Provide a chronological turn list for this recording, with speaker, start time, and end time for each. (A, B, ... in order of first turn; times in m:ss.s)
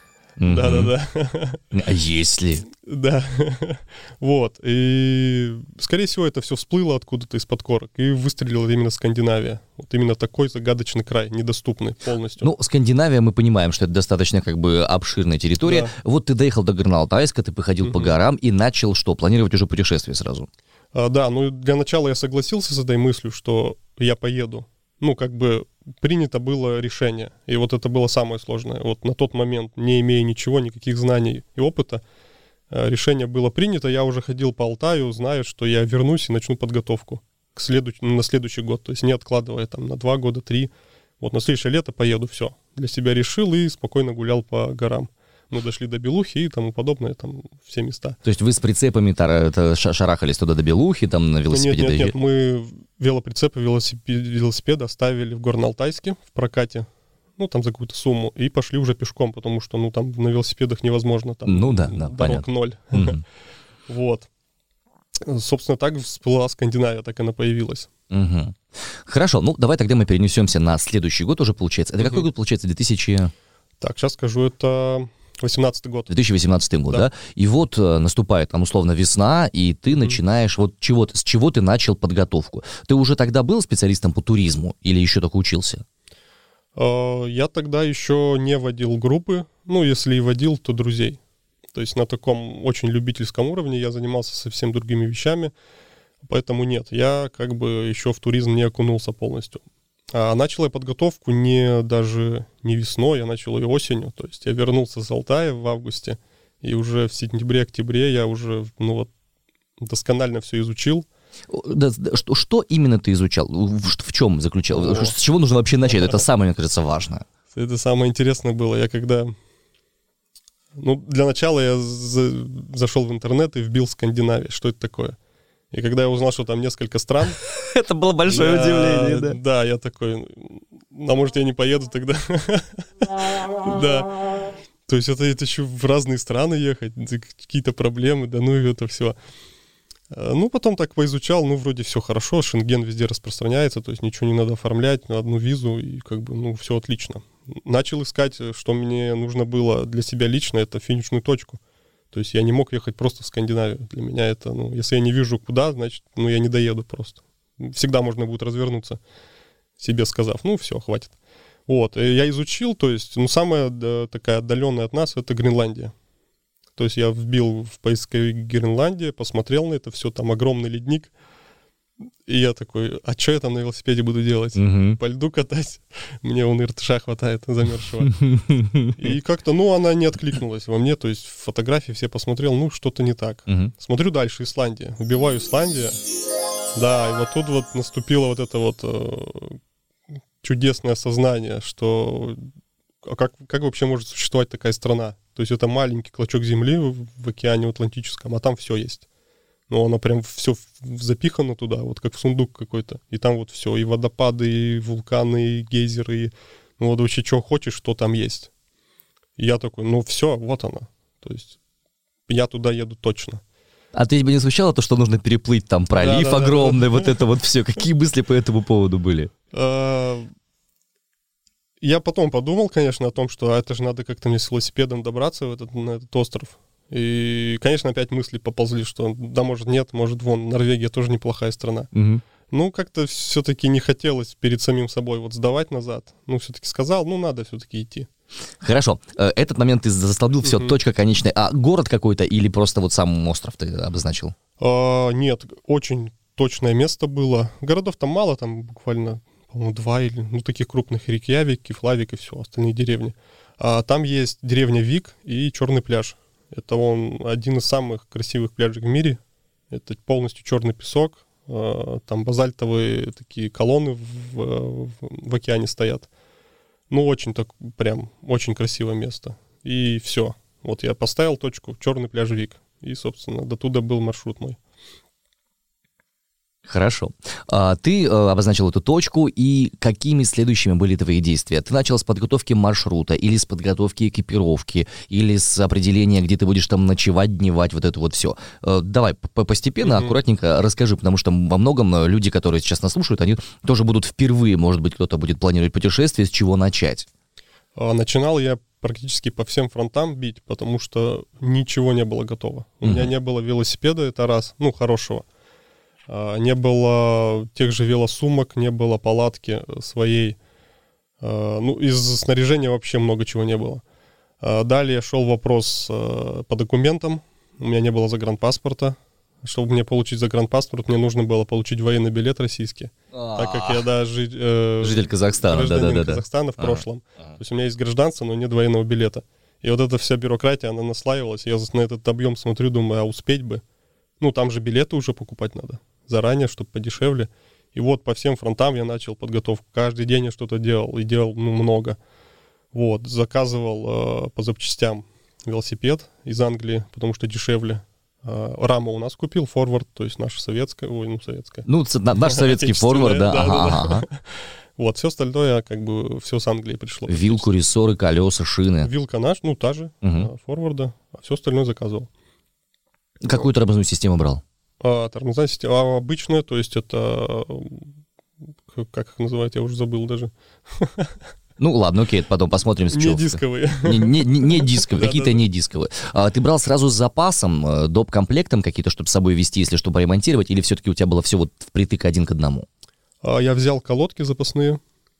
0:00.4-0:00.9 A
0:00.4-0:01.6 B
0:01.7-0:02.7 A
0:02.7-0:12.5 B
0:12.4-0:20.5 A
0:15.6-0:15.9 B
0:17.8-0:18.1 B
0:20.9-0:32.0 B
0:32.7-0:48.2 B
0:48.2-0:52.2 A
0:51.5-1:03.2 B
1:01.5-1:03.2 A
1:03.9-1:04.3 B
1:05.2-1:07.9 B
1:08.1-1:13.3 A
1:12.0-1:12.3 B
1:13.8-1:16.1 B
1:16.1-1:25.8 A
1:26.8-1:31.2 B
1:31.7-1:35.5 B
1:36.2-1:49.1 B
1:49.8-1:51.1 B
1:51.5-1:57.2 A
1:54.7-1:55.2 B
1:55.9-1:56.2 B
1:57.5-1:59.3 B
2:00.8-2:05.2 B
2:05.7-2:07.4 B
2:07.5-2:09.4 A
2:08.3-2:14.1 B
2:14.9-2:19.2 B
2:20.1-2:31.6 B
2:32.1-2:39.0 B
2:39.8-2:41.2 B
2:41.7-2:45.9 B
2:46.8-2:51.1 B
2:52.2-2:58.2 B
2:54.6-2:55.0 A
2:58.1-2:59.0 A
2:59.0-3:06.0 B
3:03.5-3:03.7 A
3:06.8-3:09.6 B
3:10.4-3:12.4 B
3:13.0-3:19.0 B
3:19.7-3:28.5 B
3:29.4-3:31.6 B
3:32.3-3:33.4 B
3:33.9-3:39.3 A
3:36.0-3:37.1 B
3:39.5-3:40.3 B
3:41.8-3:51.9 B
3:51.9-3:52.2 A
3:52.5-3:58.1 B
3:58.6-4:04.3 A
4:00.4-4:00.8 B
4:04.6-4:26.1 B
4:26.9-4:34.6 B
4:36.7-4:57.1 A
4:49.8-4:50.2 B
4:57.8-5:05.3 B
5:06.1-5:10.4 B
5:11.2-5:13.8 B
5:14.4-5:33.6 B
5:23.1-5:23.8 A
5:24.8-5:26.8 A
5:34.2-5:42.0 B
5:42.7-5:51.7 B
5:51.7-5:54.0 A
5:52.2-5:57.5 B
5:57.1-5:58.9 A
5:58.8-6:02.1 B
6:00.0-6:00.3 A
6:03.2-6:04.4 A
6:04.8-6:07.9 B
6:08.7-6:11.2 B
6:11.6-6:22.7 A
6:12.9-6:15.4 B
6:23.2-6:24.8 B